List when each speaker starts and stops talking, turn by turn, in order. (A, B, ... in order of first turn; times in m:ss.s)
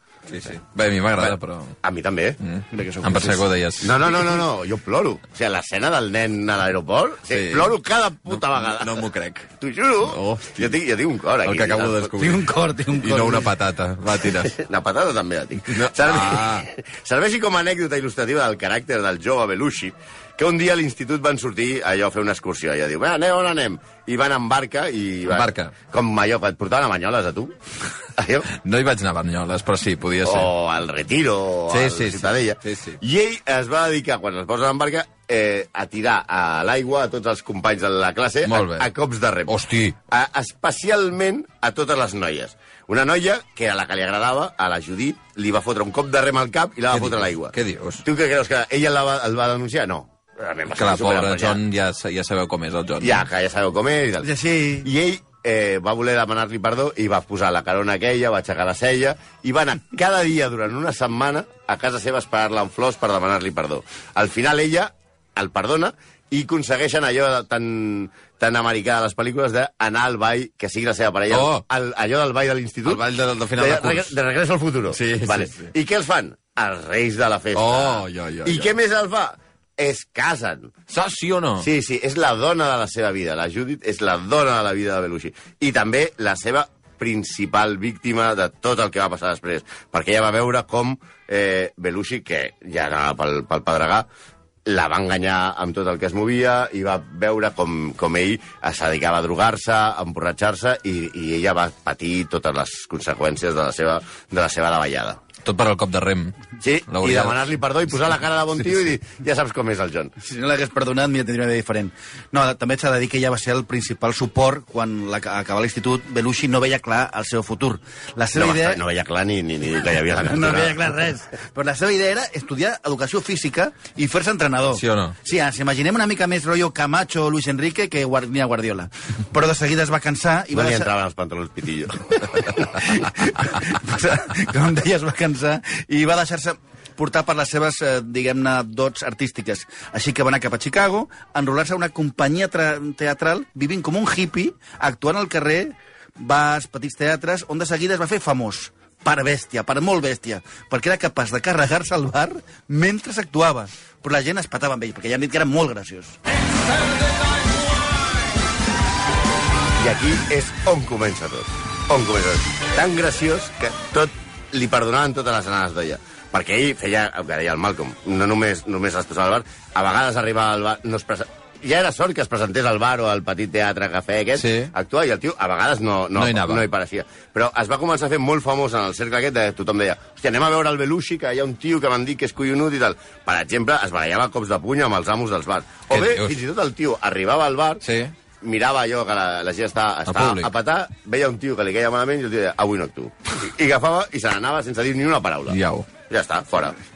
0:00.3-0:01.8 A
0:01.2-0:02.4 B
0:02.4-0:04.1 A
0:02.7-0:03.5 C
0:03.8-0:09.0 B
0:07.3-0:07.7 A
0:08.4-0:09.5 A
0:09.6-0:12.2 B
0:10.0-0:10.7 A
0:11.4-0:14.5 A
0:12.2-0:13.5 C
0:14.4-0:27.6 B
0:15.7-0:16.7 A
0:25.3-0:25.7 A
0:28.2-0:28.5 B
0:28.5-0:30.5 A
0:30.2-0:39.6 B
0:31.7-0:33.0 A
0:38.5-0:38.9 A
0:39.5-0:40.0 A
0:40.1-0:51.6 B
0:46.9-0:48.0 A
0:50.8-0:53.2 A
0:53.0-0:54.3 B
0:54.2-0:54.9 C
0:54.8-1:13.0 B
1:11.3-1:11.6 A
1:12.9-1:14.1 A
1:13.6-1:20.7 B
1:14.9-1:15.7 A
1:17.5-1:18.7 A
1:20.9-1:21.7 A
1:21.6-1:34.1 B
1:34.7-1:45.2 B
1:45.4-1:46.4 A
1:46.6-1:50.1 B
1:46.9-1:47.4 A
1:50.2-1:58.8 C
1:58.3-2:00.8 B
2:00.2-2:10.9 C
2:04.7-2:05.2 A
2:10.5-2:12.9 B
2:12.9-2:36.2 C
2:39.8-3:07.8 B
2:54.4-2:54.7 A
2:56.2-2:56.6 A
3:05.9-3:06.4 A
3:07.8-3:08.1 A
3:08.4-3:15.6 B
3:10.1-3:10.5 A
3:15.5-3:15.9 A
3:16.1-3:16.8 B